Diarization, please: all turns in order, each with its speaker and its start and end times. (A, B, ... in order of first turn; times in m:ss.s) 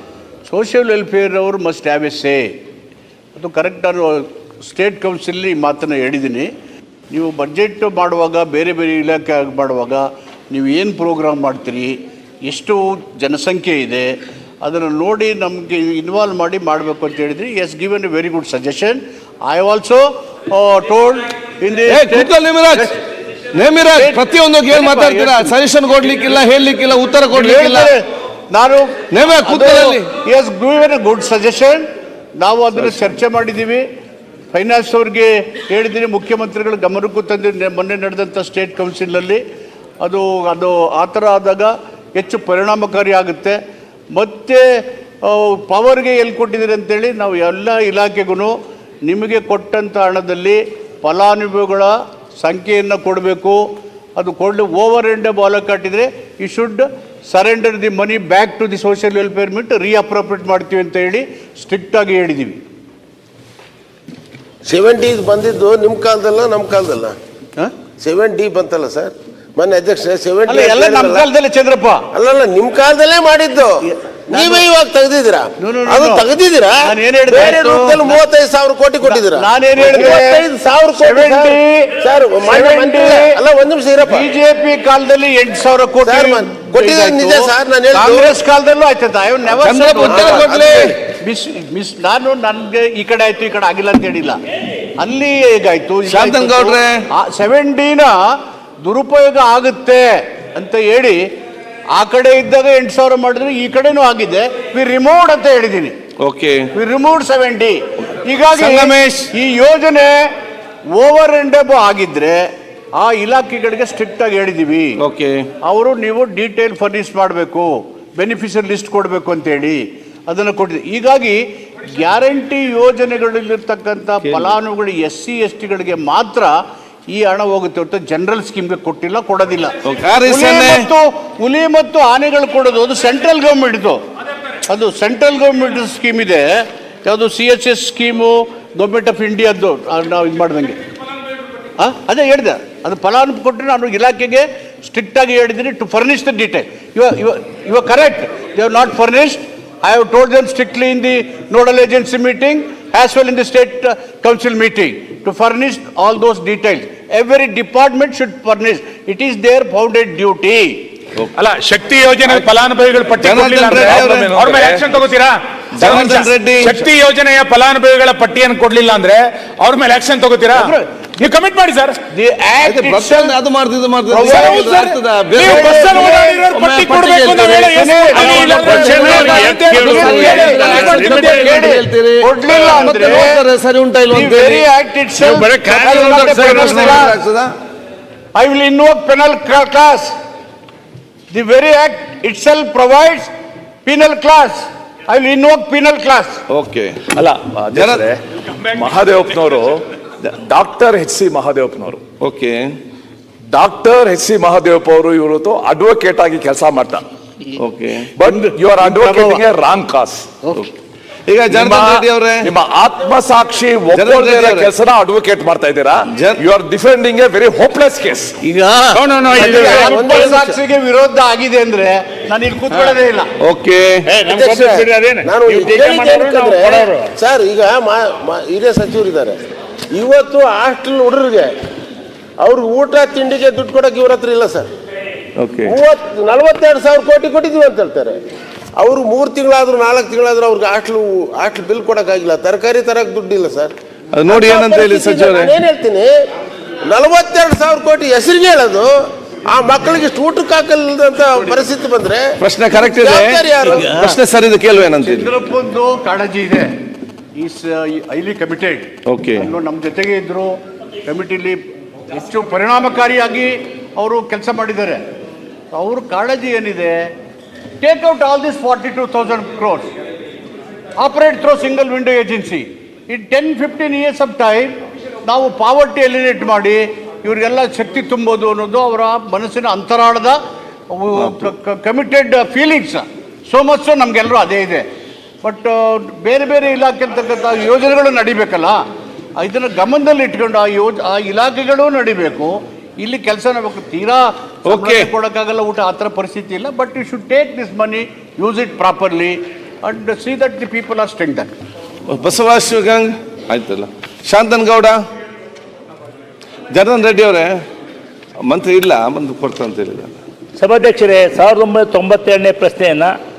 0:00.4-0:02.5 A
0:03.4-0:06.5 A
0:07.1-0:22.9 A
0:21.9-0:22.9 B
0:23.5-0:27.9 B
0:23.9-0:25.5 A
0:27.3-0:31.9 A
0:29.1-0:30.0 B
0:32.4-0:33.8 A
0:34.5-0:39.4 A
0:40.0-0:43.6 A
0:44.1-1:02.6 A
1:04.7-1:07.2 C
1:08.0-1:11.2 C
1:10.5-1:12.0 A
1:12.1-1:13.8 C
1:14.3-1:24.2 C
1:14.3-1:14.6 A
1:15.6-1:16.2 A
1:16.8-1:18.2 A
1:19.0-1:20.4 A
1:21.0-1:23.4 A
1:24.1-1:34.4 A
1:26.0-1:28.4 C
1:29.6-1:31.0 B
1:35.0-1:38.2 A
1:36.1-1:37.0 B
1:38.8-1:41.2 A
1:41.9-1:46.0 A
1:46.2-1:46.7 B
1:46.7-1:50.2 A
1:48.6-1:49.3 B
1:51.0-1:52.4 A
1:53.0-1:54.9 A
1:55.0-1:55.5 B
1:55.6-2:01.4 A
2:02.0-2:06.5 A
2:04.2-2:04.5 B
2:07.1-2:14.0 A
2:09.8-2:10.9 B
2:14.7-2:20.8 A
2:21.8-2:40.8 A
2:41.4-2:52.0 D
2:43.2-2:44.9 B
2:43.7-2:44.6 E
2:45.8-2:46.8 B
2:50.6-2:51.2 A
2:52.1-2:53.3 A
2:52.6-3:04.6 B
2:54.1-2:56.4 A
2:54.2-2:54.8 D
2:55.3-3:01.7 D
2:57.7-3:03.4 A
2:58.5-3:00.3 E
3:04.1-3:07.2 A
3:05.3-3:07.1 E
3:05.5-3:07.5 B
3:08.3-3:10.1 A
3:11.3-3:13.3 A
3:13.8-3:16.4 A
3:16.5-3:17.0 B
3:17.1-3:18.2 E
3:17.7-3:18.1 B
3:18.8-3:22.0 E
3:22.2-3:22.8 B
3:23.5-3:27.0 E
3:27.6-3:28.1 B
3:28.2-3:30.3 E
3:28.2-3:29.4 A
3:31.3-3:32.5 B
3:31.5-3:38.3 E
3:33.9-3:34.7 B
3:36.1-3:36.4 B
3:38.4-3:43.3 A
3:39.0-3:39.9 D
3:39.5-3:40.5 C
3:43.4-3:44.1 B
3:44.0-3:47.1 D
3:44.3-3:49.4 C
3:49.9-3:51.5 C
3:52.4-3:54.7 C
3:55.4-3:55.8 B
3:55.6-3:58.2 C
3:58.8-4:03.7 C
4:04.1-4:05.5 B
4:04.3-4:06.1 C
4:06.8-4:08.9 C
4:09.5-4:12.3 C
4:12.4-4:15.3 B
4:12.8-4:14.1 C
4:15.0-4:16.7 A
4:17.4-4:25.0 A
4:19.1-4:19.5 B
4:25.7-4:27.1 A
4:27.8-4:29.9 A
4:31.0-4:40.4 A
4:40.9-4:44.8 A
4:45.4-4:48.8 A
4:49.4-5:01.5 A
4:54.7-4:55.1 B
5:02.1-5:05.0 B
5:06.7-5:07.6 B
5:08.5-5:10.2 B
5:10.6-5:13.2 F